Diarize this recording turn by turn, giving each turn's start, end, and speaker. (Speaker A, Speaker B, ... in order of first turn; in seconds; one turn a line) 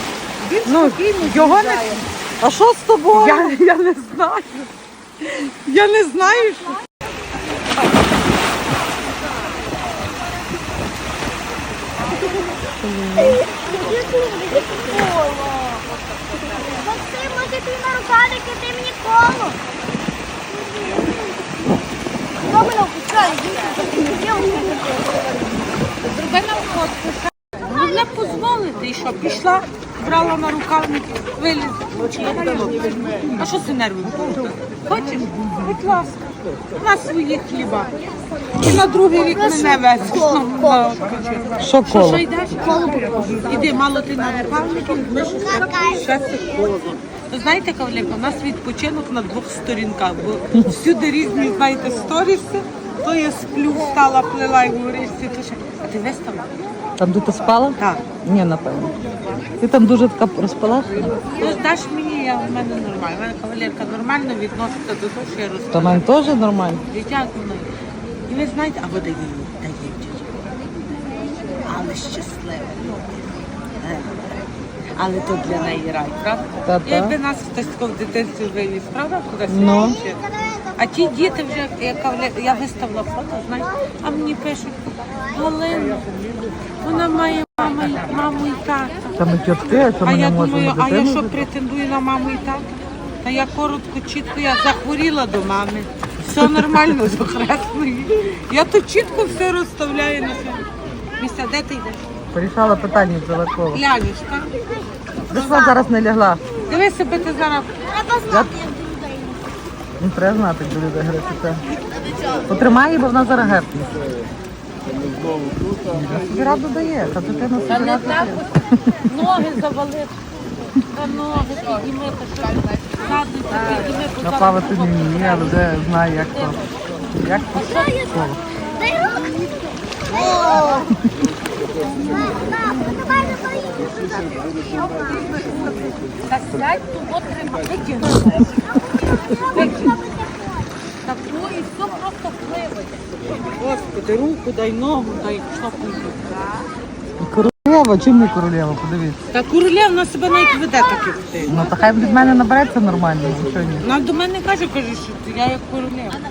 Speaker A: 0.4-3.5
Speaker B: 0.6-2.0
Speaker B: 3.1-4.7
Speaker B: 5.2-6.8
Speaker A: 12.8-13.4
Speaker C: 13.3-15.7
Speaker C: 16.5-19.6
Speaker C: 22.4-25.1
Speaker B: 23.3-24.8
Speaker B: 26.0-36.1
Speaker B: 36.8-38.0
Speaker B: 38.6-56.5
Speaker C: 39.2-40.8
Speaker A: 41.6-42.2
Speaker C: 42.9-43.4
Speaker C: 45.3-46.6
Speaker A: 57.0-58.9
Speaker B: 57.8-58.1
Speaker A: 59.6-61.2
Speaker B: 61.3-67.7
Speaker A: 65.7-66.8
Speaker B: 68.3-70.3
Speaker B: 71.6-73.2
Speaker B: 73.8-74.2
Speaker B: 75.0-80.2
Speaker A: 76.7-77.2
Speaker A: 79.5-80.0
Speaker B: 80.8-86.1
Speaker B: 86.8-89.1
Speaker A: 89.2-91.3
Speaker B: 90.0-92.7
Speaker B: 93.2-100.7
Speaker A: 96.3-96.7
Speaker B: 101.2-102.0
Speaker A: 102.3-103.8
Speaker B: 103.7-104.5
Speaker B: 105.3-105.8
Speaker A: 105.3-106.4
Speaker B: 106.7-107.7
Speaker C: 107.9-109.4
Speaker A: 110.0-111.6
Speaker A: 112.5-114.0
Speaker A: 115.9-119.1
Speaker B: 117.7-118.5
Speaker B: 119.1-120.2
Speaker B: 120.9-126.6
Speaker A: 124.2-126.6
Speaker A: 127.2-128.4
Speaker B: 127.2-129.3
Speaker B: 130.1-130.8
Speaker B: 131.9-138.6
Speaker C: 139.1-139.6
Speaker B: 139.4-140.0
Speaker B: 141.0-146.7
Speaker A: 147.2-149.2
Speaker B: 149.3-151.7
Speaker A: 151.4-153.8
Speaker B: 153.8-156.2